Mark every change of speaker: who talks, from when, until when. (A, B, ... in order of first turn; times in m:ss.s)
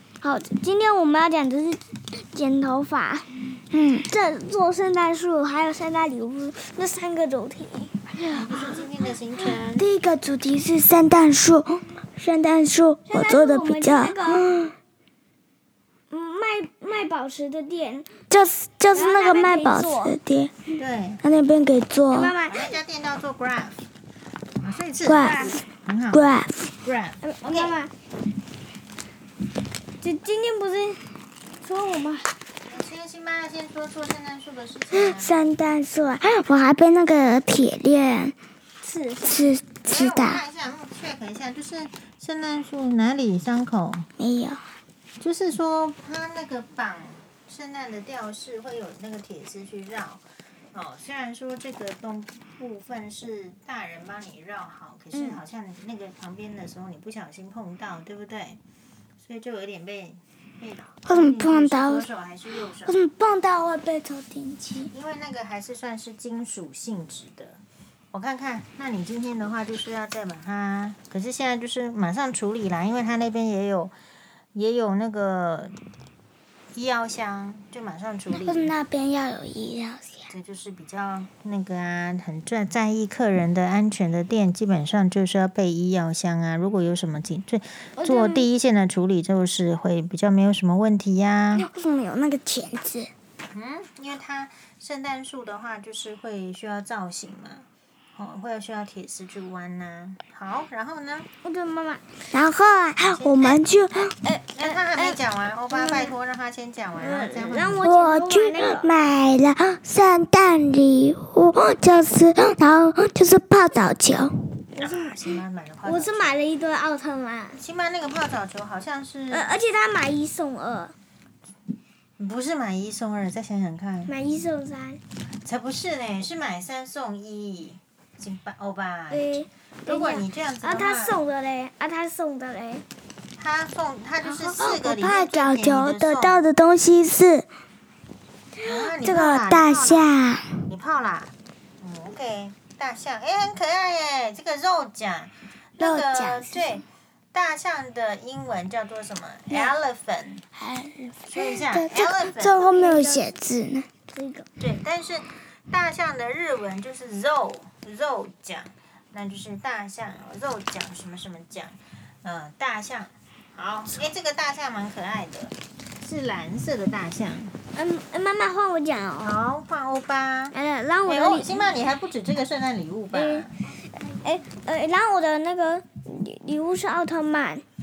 0:00.2-0:03.3 A
0:03.7-0:04.1 B
0:04.1-0:08.1 A
0:08.2-0:08.8 B
0:08.2-0:09.9 C
0:09.4-0:14.7 B
0:13.1-0:14.5 A
0:16.1-0:18.1 A
0:18.3-0:22.4 B
0:18.9-0:20.2 A
0:20.8-0:21.2 C
0:22.1-0:22.7 A
0:22.4-0:23.8 C
0:24.6-0:27.8 C
0:25.0-0:26.7 B
0:27.2-0:27.9 A
0:30.0-0:31.1 A
0:31.6-0:32.3 A
0:32.7-0:35.5 C
0:34.9-0:38.4 B
0:38.8-0:39.5 A
0:39.2-0:40.4 B
0:39.8-0:44.1 C
0:44.2-0:44.7 B
0:45.2-0:58.6 C
0:55.1-0:55.4 B
0:59.2-1:03.0 C
1:01.1-1:02.1 B
1:02.8-1:04.9 B
1:04.9-1:07.6 C
1:08.1-1:13.9 C
1:14.5-1:15.8 C
1:16.7-1:18.7 C
1:18.3-1:20.3 B
1:20.3-1:31.7 C
1:28.0-1:28.4 B
1:31.5-1:33.1 B
1:33.5-1:41.3 C
1:41.4-1:42.1 A
1:42.3-1:44.2 B
1:43.0-1:43.6 C
1:44.2-1:45.2 A
1:44.6-1:47.8 C
1:45.7-1:46.1 A
1:47.0-1:48.9 A
1:47.8-1:54.6 B
1:54.8-1:56.4 C
1:54.8-1:55.2 A
1:55.8-1:57.6 A
1:57.6-1:59.5 C
1:59.3-2:01.0 A
2:02.2-2:04.1 C
2:04.1-2:05.0 A
2:05.4-2:11.2 C
2:09.1-2:12.8 A
2:13.4-2:16.4 C
2:14.2-2:17.5 B
2:18.6-2:20.7 B
2:18.6-2:20.2 C
2:20.7-2:30.4 C
2:25.8-2:26.7 B
2:30.6-2:33.9 B
2:31.3-2:32.8 C
2:32.7-2:33.3 A
2:34.1-2:34.5 A
2:34.6-2:47.6 C
2:47.7-2:49.4 A
2:49.2-2:53.5 C
2:50.5-2:51.8 A
2:53.1-2:57.6 A